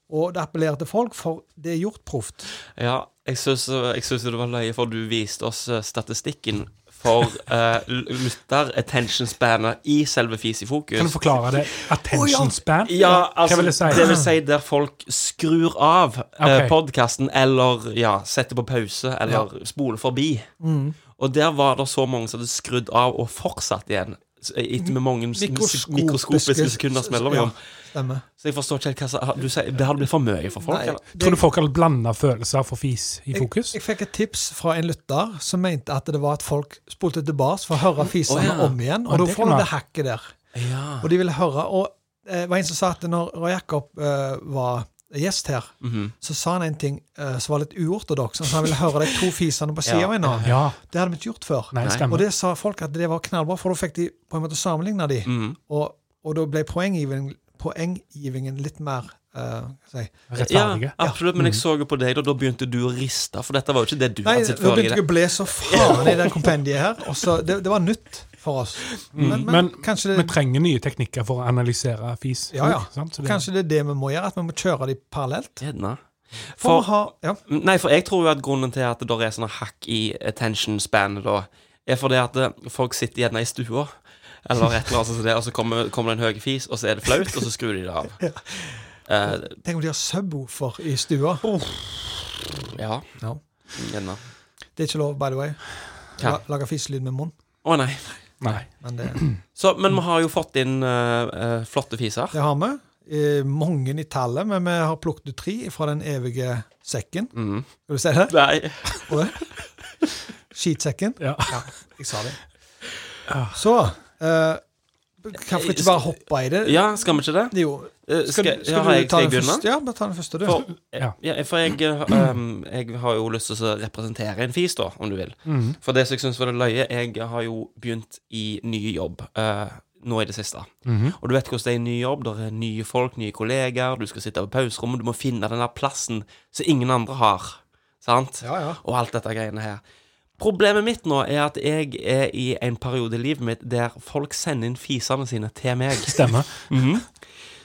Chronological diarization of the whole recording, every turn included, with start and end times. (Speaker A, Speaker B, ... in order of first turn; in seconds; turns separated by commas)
Speaker A: 0.1-2.5, Speaker B: 2.7-11.2, Speaker C: 11.0-14.1, Speaker A: 12.1-13.2, Speaker B: 12.8-20.5, Speaker A: 13.9-14.3, Speaker C: 16.4-16.7, Speaker A: 20.6-20.9, Speaker B: 21.2-27.6, Speaker A: 24.8-28.2, Speaker B: 28.4-31.0, Speaker A: 30.6-31.4, Speaker C: 31.1-33.8, Speaker A: 33.3-40.4, Speaker B: 38.3-38.8, Speaker C: 39.1-39.7, Speaker B: 40.5-41.1, Speaker A: 41.0-60.1, Speaker B: 45.8-46.1, Speaker B: 49.8-50.5, Speaker C: 50.4-50.8, Speaker C: 51.7-52.3, Speaker B: 51.8-52.1, Speaker B: 55.2-55.6, Speaker C: 60.3-61.6, Speaker B: 60.4-66.5, Speaker A: 64.2-70.3, Speaker B: 69.0-69.4, Speaker C: 69.1-73.4, Speaker A: 72.5-75.6, Speaker B: 75.6-76.9, Speaker A: 76.6-77.4, Speaker B: 77.5-88.2, Speaker A: 88.2-91.5, Speaker B: 89.1-89.5, Speaker B: 91.5-93.0, Speaker B: 93.7-94.2, Speaker A: 94.8-97.3, Speaker B: 97.6-98.5, Speaker C: 98.4-99.4, Speaker A: 98.7-99.2, Speaker B: 99.5-102.3, Speaker A: 102.3-107.3, Speaker B: 107.3-107.7, Speaker A: 107.9-108.3, Speaker B: 108.3-109.2, Speaker A: 109.1-109.4, Speaker A: 110.5-112.4, Speaker C: 111.2-111.6, Speaker C: 113.3-113.6, Speaker A: 113.5-114.6, Speaker A: 115.2-116.9, Speaker B: 115.5-117.5, Speaker A: 117.5-120.6, Speaker B: 118.1-119.7, Speaker B: 120.4-139.8, Speaker C: 125.5-125.8, Speaker C: 130.8-131.2, Speaker A: 138.4-138.8, Speaker B: 140.4-147.2, Speaker C: 146.0-146.7